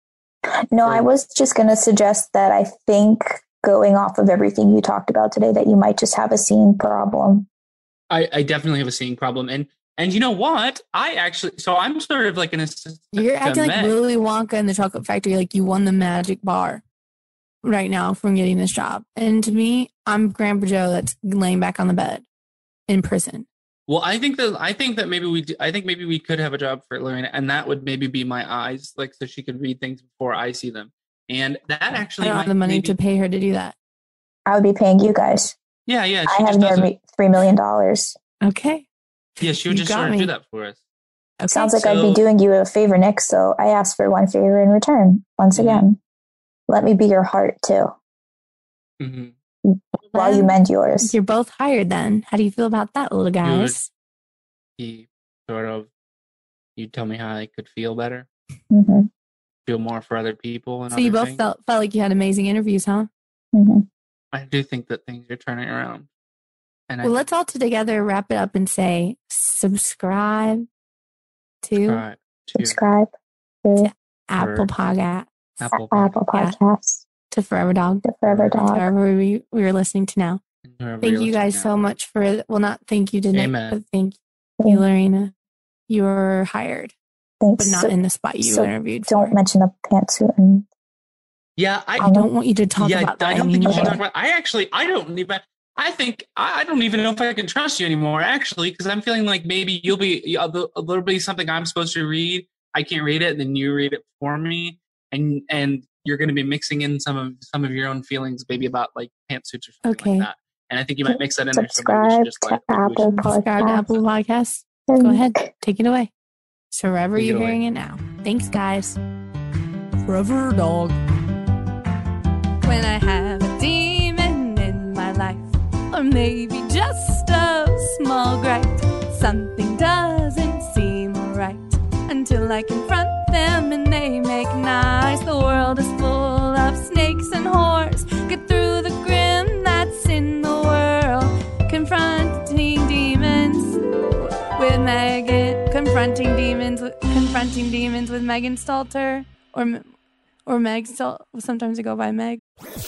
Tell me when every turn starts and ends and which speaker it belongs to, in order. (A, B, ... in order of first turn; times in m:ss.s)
0:00.7-0:07.5 A
0:08.1-0:14.0 B
0:13.1-0:16.8 C
0:17.6-0:22.2 C
0:22.9-0:23.4 C
0:23.9-0:32.9 B
0:32.2-0:33.7 C
0:34.4-0:35.6 A
0:35.9-0:36.9 B
0:36.2-0:38.2 A
0:38.4-0:38.9 C
0:39.4-0:40.8 B
0:39.6-0:40.3 C
0:41.4-0:41.8 C
0:41.5-0:46.0 A
0:41.8-0:42.2 B
0:45.5-0:45.8 B
0:46.7-0:48.0 A
0:49.0-0:49.3 B
0:49.6-0:51.1 A
0:50.1-0:53.9 C
0:53.4-0:53.8 B
0:54.8-0:55.9 B
0:56.8-0:58.3 B
0:58.7-0:59.1 A
0:59.6-1:01.4 B
1:00.9-1:03.1 C
1:03.5-1:03.8 A
1:04.3-1:06.1 B
1:06.9-1:07.2 B
1:07.0-1:10.6 C
1:11.6-1:12.0 C
1:11.8-1:12.8 B
1:12.6-1:13.1 A
1:13.6-1:13.9 A
1:13.8-1:15.3 C
1:14.4-1:14.7 B
1:15.6-1:16.1 B
1:15.9-1:17.0 A
1:17.3-1:18.1 C
1:18.0-1:18.9 A
1:18.2-1:18.8 B
1:18.6-1:20.4 C
1:20.6-1:21.8 B
1:21.0-1:25.3 C
1:23.3-1:23.8 B
1:25.9-1:26.9 C
1:27.4-1:30.6 A
1:27.6-1:29.4 C
1:31.6-1:32.1 B
1:32.0-1:32.3 A
1:32.0-1:34.0 C
1:32.8-1:53.2 B
1:33.7-1:34.0 A
1:49.8-1:50.3 C
1:51.0-1:53.8 A
1:53.1-1:56.1 C
1:54.9-1:55.5 A
1:56.7-1:59.0 C
1:57.2-1:57.6 B
2:00.0-2:01.0 C
2:02.6-2:29.9 C
2:30.4-2:32.4 C